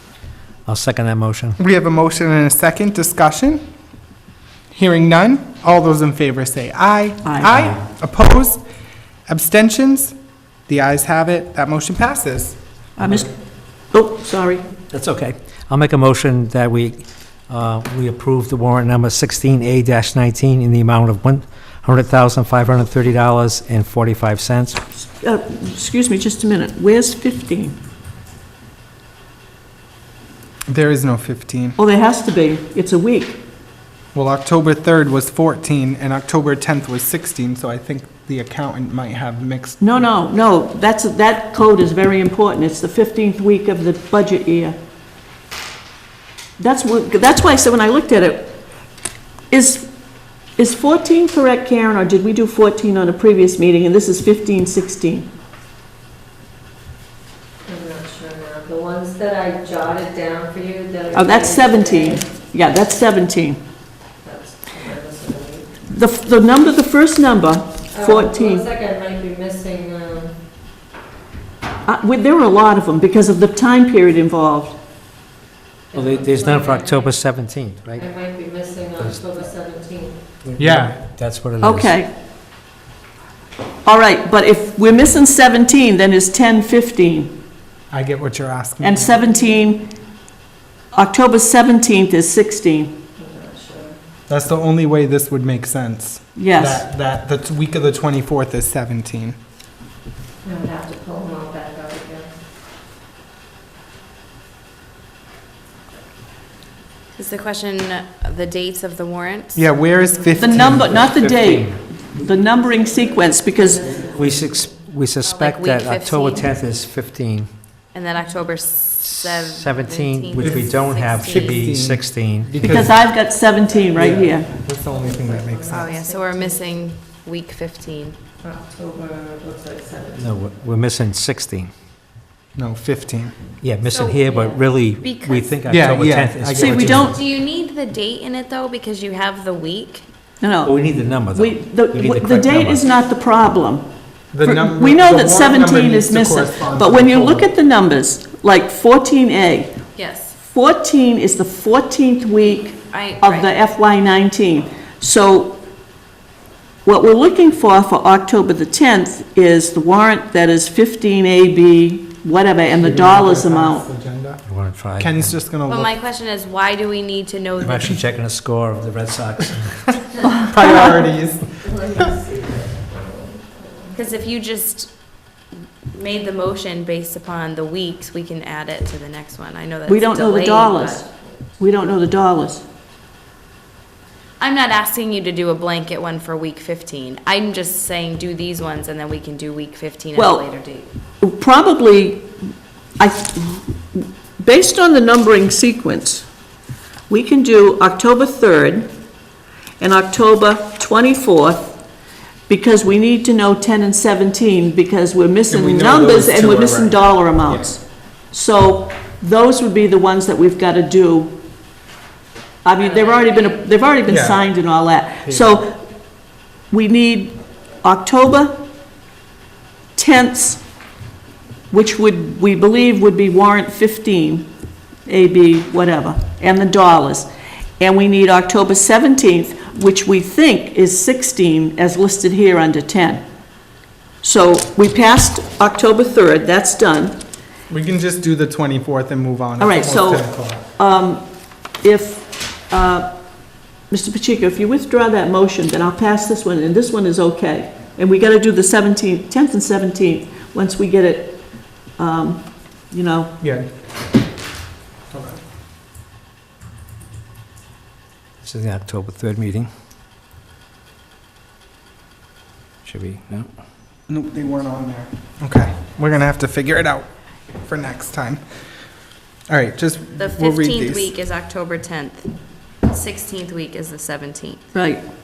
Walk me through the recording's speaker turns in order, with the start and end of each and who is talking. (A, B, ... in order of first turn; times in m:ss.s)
0:00.7-0:01.6 A
0:01.6-0:03.6 B
0:04.7-0:08.6 B
0:07.2-0:07.5 C
0:07.5-0:07.8 A
0:09.3-0:10.2 B
0:10.7-0:13.3 B
0:13.0-0:13.3 C
0:13.9-0:14.6 C
0:14.9-0:24.8 A
0:25.0-0:27.8 C
0:30.7-0:31.8 B
0:31.8-0:33.4 C
0:34.1-0:39.8 B
0:39.8-0:44.8 C
0:46.6-0:48.6 C
0:49.5-0:49.9 C
0:50.6-0:55.3 C
0:57.7-1:02.3 D
1:01.1-1:03.6 C
1:04.2-1:05.7 D
1:05.9-1:08.7 C
1:07.9-1:10.4 D
1:11.8-1:14.8 C
1:15.9-1:17.2 D
1:15.9-1:18.1 A
1:18.0-1:20.2 D
1:19.0-1:19.4 A
1:20.4-1:21.9 A
1:20.6-1:21.0 B
1:21.6-1:22.1 C
1:23.9-1:27.4 C
1:27.9-1:29.2 B
1:28.8-1:29.9 C
1:30.9-1:33.0 C
1:33.2-1:34.0 D
1:34.3-1:39.4 B
1:36.4-1:36.8 C
1:40.4-1:42.3 D
1:47.2-1:49.6 E
1:49.6-1:51.6 B
1:49.9-1:51.0 D
1:50.4-1:54.0 C
1:50.7-1:51.8 A
1:52.2-1:54.8 D
1:54.0-1:57.5 A
1:55.2-1:56.5 E
1:57.9-2:01.7 E
1:58.2-1:58.4 D
1:59.0-2:02.8 A
2:00.4-2:03.0 B
2:02.6-2:04.5 C
2:03.6-2:06.8 D
2:04.0-2:05.9 B
2:05.7-2:08.2 E
2:08.4-2:10.5 D
2:10.2-2:11.7 A
2:12.6-2:13.4 B
2:13.6-2:17.2 A
2:13.8-2:15.6 E
2:14.3-2:14.6 D
2:15.7-2:17.1 B
2:16.5-2:17.2 C
2:16.9-2:20.1 E
2:20.4-2:20.8 C
2:20.6-2:22.8 A
2:21.3-2:23.9 C
2:24.3-2:27.5 B
2:24.4-2:29.8 C
2:30.0-2:30.4 E
2:30.4-2:35.6 C
2:32.9-2:33.5 E
2:36.8-2:43.9 C
2:42.8-2:44.4 B
2:44.5-2:45.3 A
2:45.0-2:45.9 B
2:45.7-2:48.1 E
2:47.6-2:50.0 A
2:50.4-2:51.6 B
2:51.6-2:54.1 D
2:53.9-2:54.9 E
2:55.9-3:01.0 E
2:59.9-3:01.1 C
3:01.6-3:02.6 C
3:04.4-3:10.9 E
3:10.2-3:10.4 C
3:11.2-3:12.3 C
3:13.0-3:16.3 C
3:17.1-3:18.9 C
3:19.8-3:21.8 C
3:22.5-3:31.4 C
3:25.5-3:27.7 B
3:32.6-3:35.8 C
3:32.8-3:33.6 E
3:34.1-3:34.4 B
3:35.2-3:35.6 B
3:36.7-3:38.6 C
3:40.0-3:40.6 C
3:41.7-3:44.5 C
3:45.1-3:53.2 C
3:54.2-3:57.2 C
3:57.7-4:00.6 B
3:59.6-4:01.3 C
4:01.8-4:03.2 C
4:03.9-4:13.4 C
4:13.4-4:13.7 B
4:15.1-4:15.4 B
4:18.4-4:19.7 A
4:22.8-4:23.5 A
4:24.1-4:28.4 B
4:29.5-4:31.1 B
4:30.2-4:32.3 E
4:32.9-4:34.6 E
4:34.7-4:35.0 C